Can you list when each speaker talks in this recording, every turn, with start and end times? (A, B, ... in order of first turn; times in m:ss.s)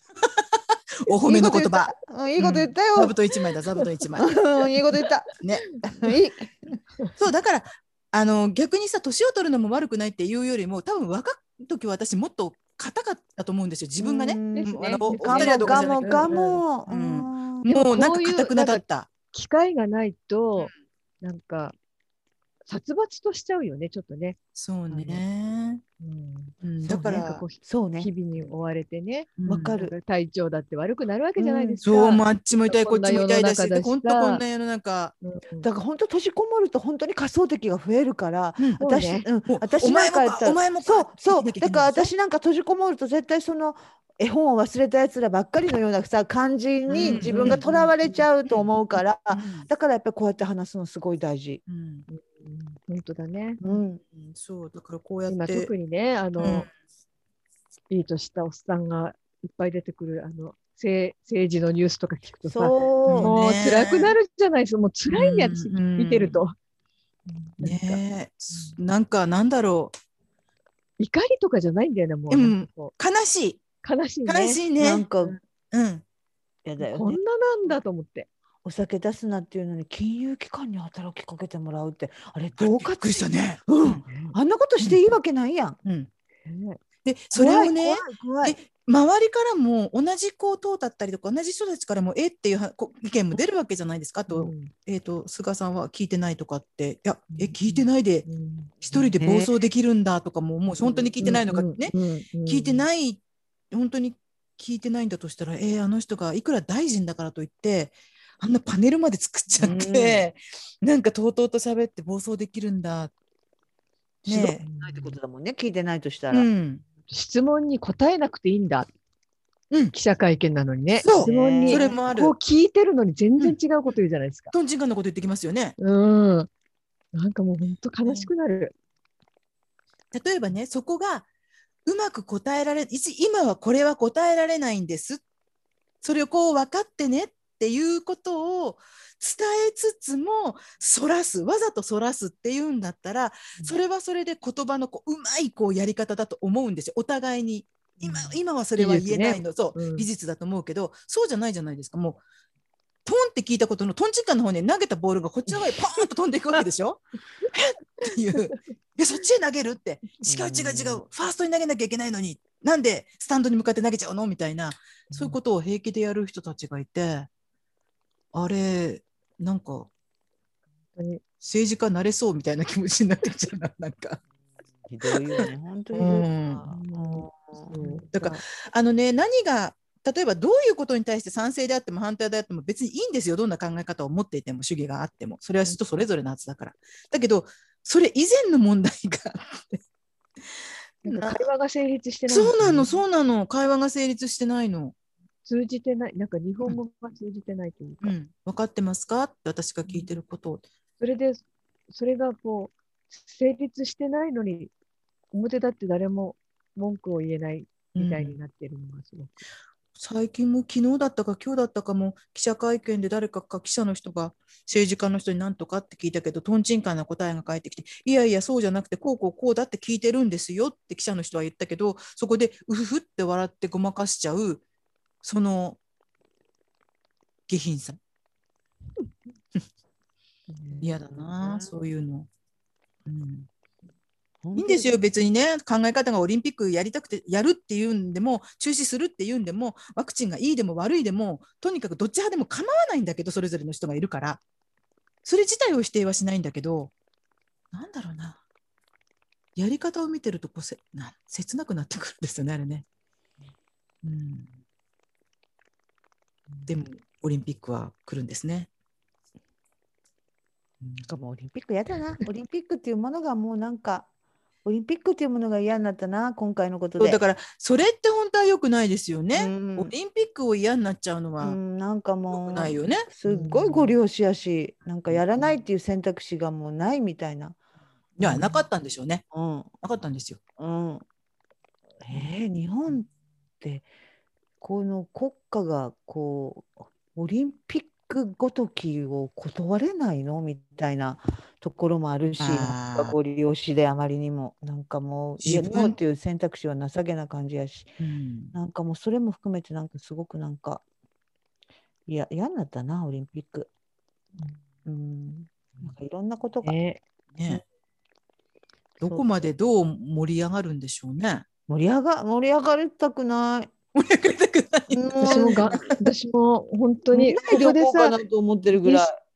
0:00.2-0:04.4 A
0:01.2-0:03.1 B
0:04.2-0:05.3 B
0:05.4-0:05.8 A
0:05.8-0:06.8 B
0:07.2-0:19.1 A
0:14.0-0:17.7 B
0:14.5-0:16.6 C
0:17.7-0:21.7 C
0:22.6-0:24.4 C
0:24.5-0:25.8 A
0:24.9-0:25.2 C
0:26.0-0:34.4 C
0:26.6-0:27.4 A
0:26.8-0:28.1 B
0:29.4-0:29.7 A
0:29.4-0:29.9 B
0:31.4-0:31.8 B
0:31.8-0:35.1 A
0:35.2-0:35.7 C
0:35.6-0:51.6 B
0:38.8-0:39.2 C
0:39.5-0:42.1 A
0:46.9-0:47.7 A
0:47.0-0:48.2 C
0:49.3-0:49.7 A
0:51.7-0:52.1 A
0:52.1-0:53.6 C
0:53.6-0:54.0 B
0:53.7-0:55.7 A
0:55.3-0:56.7 C
0:56.4-0:56.7 A
0:57.9-1:06.5 C
1:02.4-1:03.3 B
1:03.0-1:04.2 A
1:05.1-1:06.4 A
1:07.2-1:08.0 C
1:07.6-1:09.9 A
1:08.5-1:08.8 C
1:11.0-1:12.9 C
1:12.3-1:13.6 A
1:13.8-1:14.6 C
1:14.2-1:15.0 A
1:14.8-1:15.4 B
1:15.7-1:16.0 A
1:16.6-1:17.2 B
1:16.8-1:18.3 C
1:18.6-1:25.8 B
1:22.6-1:24.0 A
1:24.1-1:24.3 C
1:25.8-1:26.1 A
1:26.4-1:26.8 C
1:27.0-1:38.3 A
1:27.3-1:28.6 B
1:34.3-1:34.7 C
1:37.3-1:39.1 C
1:38.8-1:53.1 A
1:39.2-1:39.5 B
1:41.2-1:42.8 C
1:49.6-1:50.2 B
1:54.2-1:54.6 A
1:54.3-1:56.5 B
1:54.6-1:55.2 C
1:56.3-1:56.8 A
1:57.1-1:58.9 C
1:59.9-2:04.5 C
2:01.0-2:02.3 A
2:01.1-2:02.0 B
2:04.5-2:05.8 A
2:05.8-2:06.5 C
2:07.1-2:08.7 C
2:08.0-2:08.3 A
2:10.1-2:11.2 A
2:11.8-2:15.2 A
2:16.0-2:32.2 A
2:28.0-2:30.1 C
2:33.0-2:47.3 A
2:40.2-2:41.0 B
2:48.3-2:49.9 A
2:50.9-2:51.2 C
2:51.4-2:54.2 A
2:54.8-2:57.7 B
2:55.4-2:56.7 A
2:56.4-2:58.4 C
2:57.7-3:09.8 A
3:11.0-3:11.5 A
3:11.0-3:13.0 C
3:12.3-3:14.9 A
3:15.4-3:18.1 C
3:18.0-3:20.6 A
3:21.0-3:24.7 C
3:25.3-3:29.4 C
3:27.9-3:28.4 A
3:30.0-3:44.6 A
3:45.2-3:45.8 A
3:47.5-3:48.0 A
3:50.5-3:50.9 C
3:50.8-3:52.3 A
3:51.0-3:51.7 B
3:53.0-3:53.5 A
3:54.4-3:54.9 B
3:54.6-4:04.4 A
4:05.2-4:06.9 A
4:07.7-4:08.4 A
4:09.6-4:12.8 A
4:14.0-4:14.5 A
4:16.7-4:18.7 A
4:21.0-4:24.1 B
4:24.6-4:27.2 B
4:27.0-4:31.6 A
4:29.3-4:29.9 B
4:31.4-4:37.6 B
4:32.3-4:33.1 A
4:33.3-4:33.9 C
4:35.1-4:35.5 A
4:38.2-4:39.2 A
4:38.2-4:38.5 B
4:39.3-4:39.7 B
4:39.8-4:40.4 A
4:40.6-4:41.0 B
4:42.0-4:43.1 B
4:43.6-4:43.8 B
4:44.6-4:57.9 B
4:52.4-4:53.1 A
4:55.4-4:56.0 A
4:58.0-4:58.5 A
4:58.5-5:00.8 B
5:02.1-5:03.7 B
5:04.8-5:06.8 B
5:06.6-5:07.0 C
5:07.3-5:07.6 A
5:09.0-5:09.2 B
5:09.0-5:11.4 A
5:11.7-5:13.7 B
5:13.9-5:16.0 A
5:14.9-5:15.8 B
5:15.2-5:18.2 C
5:17.1-5:19.2 B
5:18.7-5:19.1 C